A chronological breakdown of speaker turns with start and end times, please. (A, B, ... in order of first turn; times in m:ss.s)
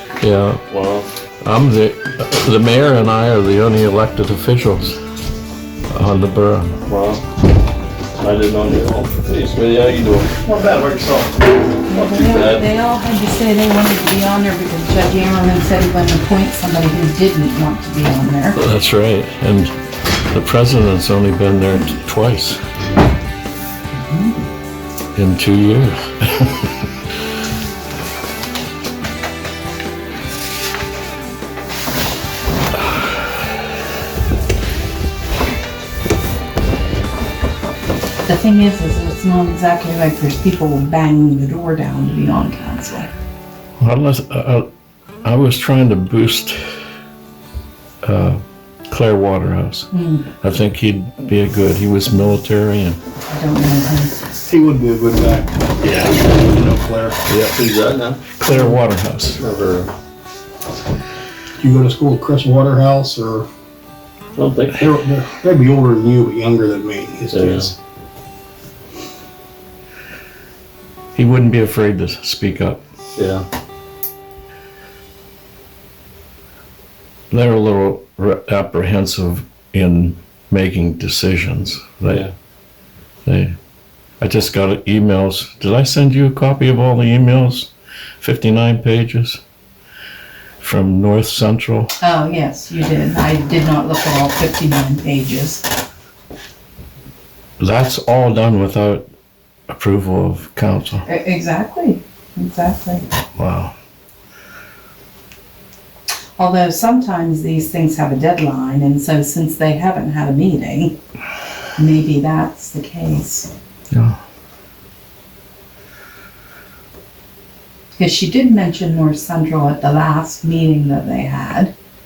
0:00.2-0:00.6 A
0:00.7-0:01.1 B
0:01.4-0:05.0 A
0:05.9-0:06.8 A
0:06.9-0:07.2 B
0:08.2-0:11.4 B
0:11.9-0:18.6 C
0:11.9-0:12.6 B
0:18.6-0:19.7 A
0:20.3-0:22.6 A
0:24.0-0:24.4 C
0:25.1-0:26.8 A
0:38.2-0:43.1 C
0:43.8-0:44.7 A
0:45.2-0:46.6 A
0:48.0-0:53.0 A
0:49.9-0:50.3 C
0:53.3-0:54.1 C
0:54.5-0:57.2 D
0:57.2-0:57.6 A
0:57.5-0:58.2 B
0:58.3-0:59.4 A
0:59.4-0:59.9 B
1:01.6-1:03.5 D
1:04.4-1:05.0 B
1:04.7-1:07.7 D
1:07.3-1:07.7 B
1:11.1-1:12.8 A
1:13.2-1:13.4 B
1:17.3-1:22.3 A
1:23.2-1:23.6 A
1:24.2-1:27.7 A
1:28.2-1:29.4 A
1:30.6-1:31.9 A
1:32.0-1:35.6 C
1:37.6-1:39.1 A
1:39.7-1:41.0 A
1:41.0-1:43.0 C
1:43.4-1:43.7 A
1:46.4-1:51.0 C
1:51.8-1:53.5 C
1:53.9-1:54.2 A
1:58.0-2:01.7 C